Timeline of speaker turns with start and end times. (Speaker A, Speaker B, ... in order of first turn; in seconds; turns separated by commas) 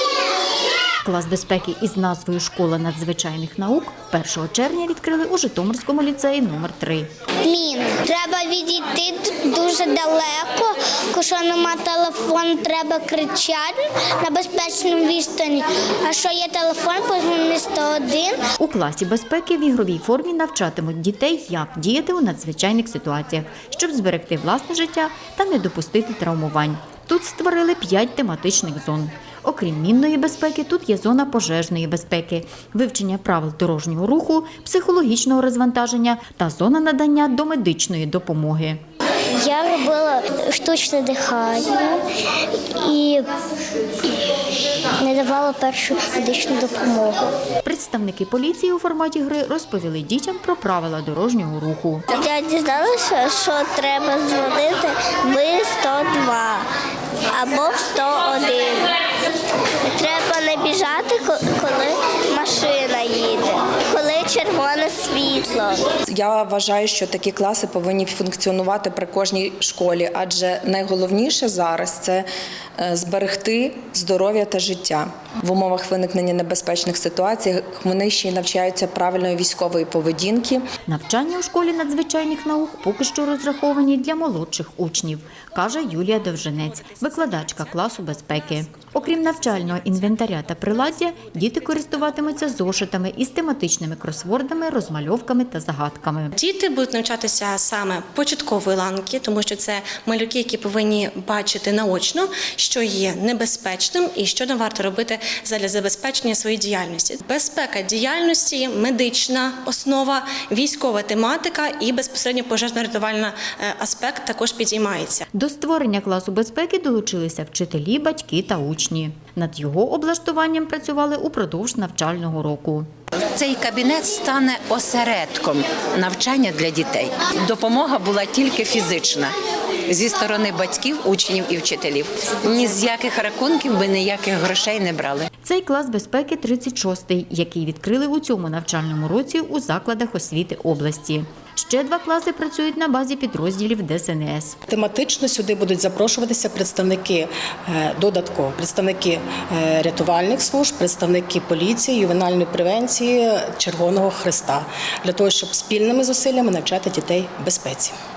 Speaker A: 1.0-7.1, Speaker B: 7.4-18.4, Speaker A: 18.6-38.8, Speaker B: 39.4-42.0, Speaker B: 42.6-43.2, Speaker B: 45.0-47.3, Speaker A: 47.6-52.0, Speaker B: 52.1-56.7, Speaker B: 57.3-58.9, Speaker B: 59.8-65.9, Speaker C: 66.1-72.2, Speaker C: 72.8-80.6, Speaker A: 80.9-96.3, Speaker D: 96.4-115.2, Speaker A: 115.3-122.9, Speaker E: 123.3-129.3, Speaker E: 129.9-135.2, Speaker A: 135.4-144.6, Speaker F: 144.7-157.9